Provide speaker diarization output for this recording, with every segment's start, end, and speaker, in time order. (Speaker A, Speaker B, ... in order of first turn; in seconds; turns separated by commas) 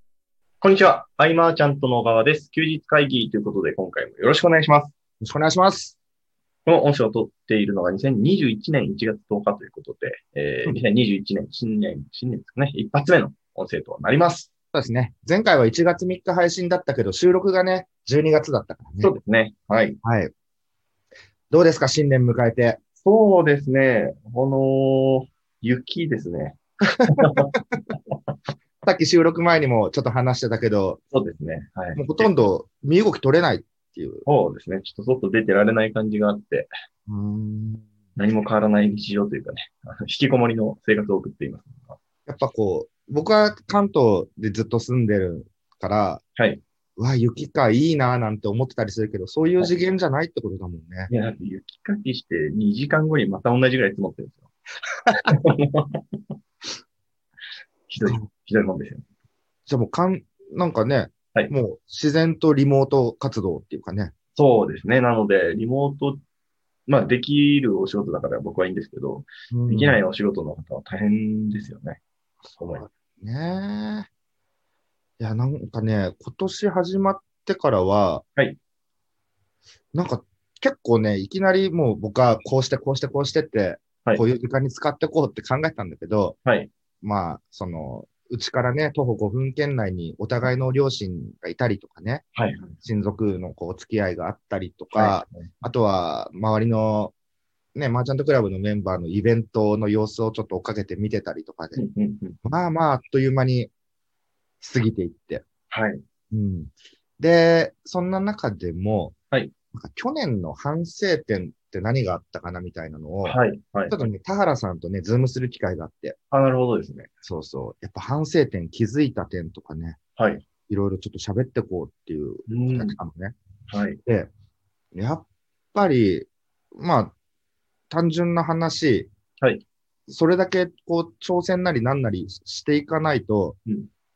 Speaker A: 0.6-4.9, Speaker B: 5.2-5.9, Speaker A: 6.6-14.5, Speaker B: 14.7-19.1, Speaker A: 19.0-20.0, Speaker B: 20.0-20.3, Speaker B: 21.5-22.8, Speaker A: 23.0-28.2, Speaker B: 27.2-27.6, Speaker B: 28.8-31.0, Speaker A: 31.1-32.3, Speaker B: 31.9-34.2, Speaker A: 34.2-36.7, Speaker B: 37.1-37.8, Speaker A: 38.2-42.0, Speaker B: 42.2-46.2, Speaker A: 46.4-46.6, Speaker B: 47.0-51.1, Speaker A: 51.1-54.5, Speaker A: 55.1-56.2, Speaker A: 57.9-59.0, Speaker B: 59.7-64.1, Speaker A: 64.3-66.2, Speaker A: 66.9-72.0, Speaker B: 69.5-70.0, Speaker A: 72.6-72.9, Speaker B: 72.6-74.1, Speaker B: 75.2-78.2, Speaker B: 79.9-86.4, Speaker A: 86.4-86.7, Speaker B: 87.0-92.2, Speaker A: 92.3-92.8, Speaker B: 92.8-97.1, Speaker A: 94.9-95.5, Speaker B: 97.7-101.8, Speaker A: 101.7-102.4, Speaker B: 102.4-103.7, Speaker B: 104.6-105.4, Speaker A: 105.7-106.0, Speaker B: 106.3-109.2, Speaker B: 109.7-113.4, Speaker A: 113.2-114.0, Speaker B: 113.9-116.2, Speaker A: 116.3-117.1, Speaker B: 117.2-120.0, Speaker A: 120.2-120.4, Speaker B: 120.7-123.3, Speaker A: 122.5-123.0, Speaker A: 123.7-124.0, Speaker B: 124.9-127.1, Speaker B: 127.9-129.1, Speaker A: 129.4-129.6, Speaker B: 130.1-133.6